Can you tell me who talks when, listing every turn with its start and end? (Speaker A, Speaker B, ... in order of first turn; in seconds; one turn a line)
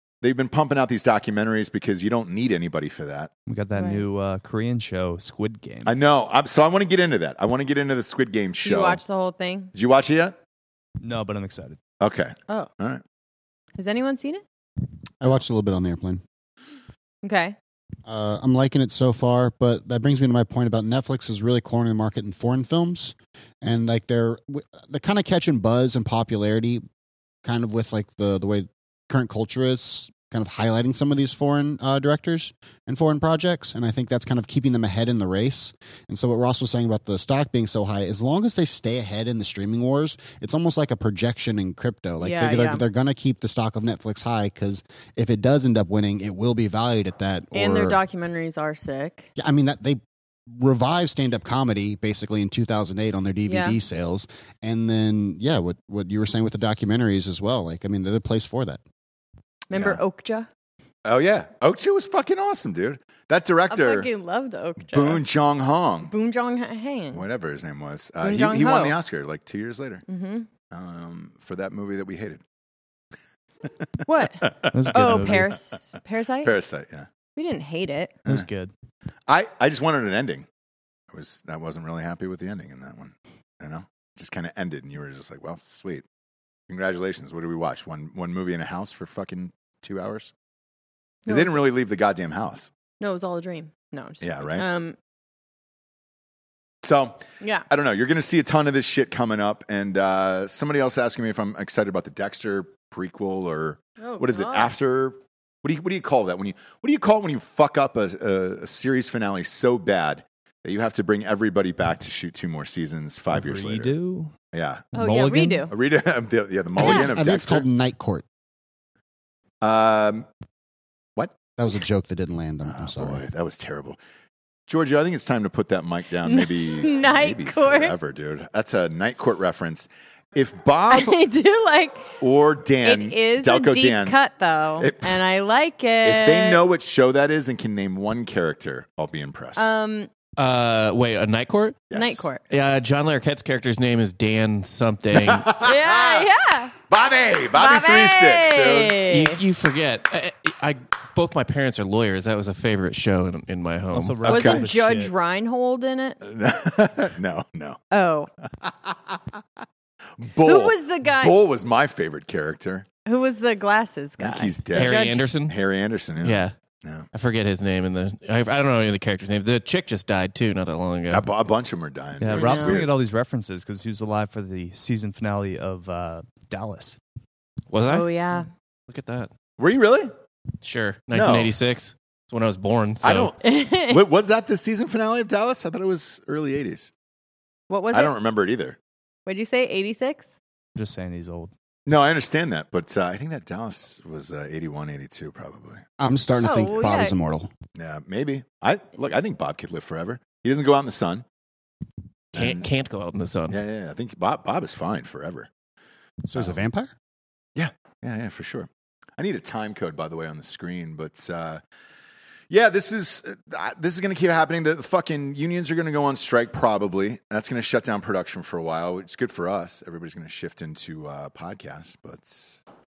Speaker A: 0.2-3.3
Speaker B: 3.5-5.9
Speaker C: 3.8-4.0
Speaker A: 5.8-9.0
Speaker C: 8.6-9.7
Speaker A: 9.7-10.4
Speaker B: 11.0-11.8
Speaker A: 12.0-13.0
Speaker C: 13.8-14.4
Speaker D: 15.2-16.2
Speaker C: 17.2-17.6
Speaker D: 18.1-26.8
Speaker D: 27.4-48.0
Speaker C: 42.2-42.8
Speaker C: 47.5-49.3
Speaker D: 49.4-58.8
Speaker C: 53.5-53.8
Speaker C: 59.7-60.5
Speaker A: 59.7-60.0
Speaker A: 61.0-64.1
Speaker C: 63.7-65.2
Speaker A: 64.8-66.1
Speaker C: 66.1-67.2
Speaker A: 67.1-70.0
Speaker C: 68.2-69.0
Speaker C: 70.1-70.5
Speaker A: 70.7-72.4
Speaker C: 74.0-76.5
Speaker A: 74.3-75.4
Speaker B: 74.7-75.5
Speaker A: 76.4-77.1
Speaker C: 77.4-78.2
Speaker B: 78.3-78.7
Speaker A: 79.3-80.5
Speaker A: 81.1-86.0
Speaker A: 86.7-90.3
Speaker C: 91.3-91.6
Speaker A: 91.3-92.7
Speaker C: 93.0-95.0
Speaker A: 94.2-94.7
Speaker A: 96.8-114.0
Speaker C: 97.4-97.7
Speaker C: 104.0-104.7
Speaker B: 113.3-114.3
Speaker A: 114.5-114.9
Speaker B: 114.9-115.7
Speaker C: 115.0-115.7
Speaker A: 115.7-117.7
Speaker D: 116.8-118.2
Speaker C: 116.8-117.1
Speaker A: 119.6-120.3
Speaker D: 121.6-123.2
Speaker A: 122.7-124.0
Speaker A: 124.7-131.2
Speaker C: 126.2-128.0
Speaker C: 130.9-132.2
Speaker A: 132.2-134.2
Speaker C: 132.8-136.6
Speaker A: 134.8-135.2
Speaker A: 136.0-139.7
Speaker C: 139.6-140.1
Speaker E: 140.4-141.9
Speaker A: 141.9-142.3
Speaker C: 141.9-142.4
Speaker E: 142.5-145.5
Speaker A: 145.1-146.3
Speaker C: 145.6-146.8
Speaker A: 146.9-149.0
Speaker C: 147.6-149.4
Speaker E: 149.1-154.2
Speaker B: 153.9-155.1
Speaker A: 154.2-154.7
Speaker C: 154.3-156.2
Speaker A: 156.2-157.8
Speaker C: 157.9-158.3
Speaker A: 158.6-159.4
Speaker A: 160.2-162.9
Speaker C: 160.4-161.4
Speaker C: 163.1-165.2
Speaker A: 164.2-167.1
Speaker E: 164.7-165.6
Speaker E: 166.2-166.5
Speaker E: 167.1-171.3
Speaker A: 171.1-172.9
Speaker B: 172.2-177.0
Speaker C: 172.3-172.8
Speaker E: 177.7-179.3
Speaker C: 177.9-178.5
Speaker A: 179.6-180.1
Speaker E: 180.6-183.3
Speaker A: 181.1-181.5
Speaker A: 183.0-186.9
Speaker C: 183.4-184.0
Speaker C: 187.7-188.1
Speaker A: 187.9-188.8
Speaker C: 189.3-190.3
Speaker B: 190.8-191.5
Speaker A: 191.9-195.8
Speaker D: 196.0-197.5
Speaker C: 196.4-197.2
Speaker A: 197.8-201.2
Speaker A: 202.3-202.7
Speaker E: 202.3-203.6
Speaker A: 203.5-205.5
Speaker D: 206.2-206.9
Speaker A: 206.3-206.6
Speaker A: 207.6-211.6
Speaker A: 212.5-222.6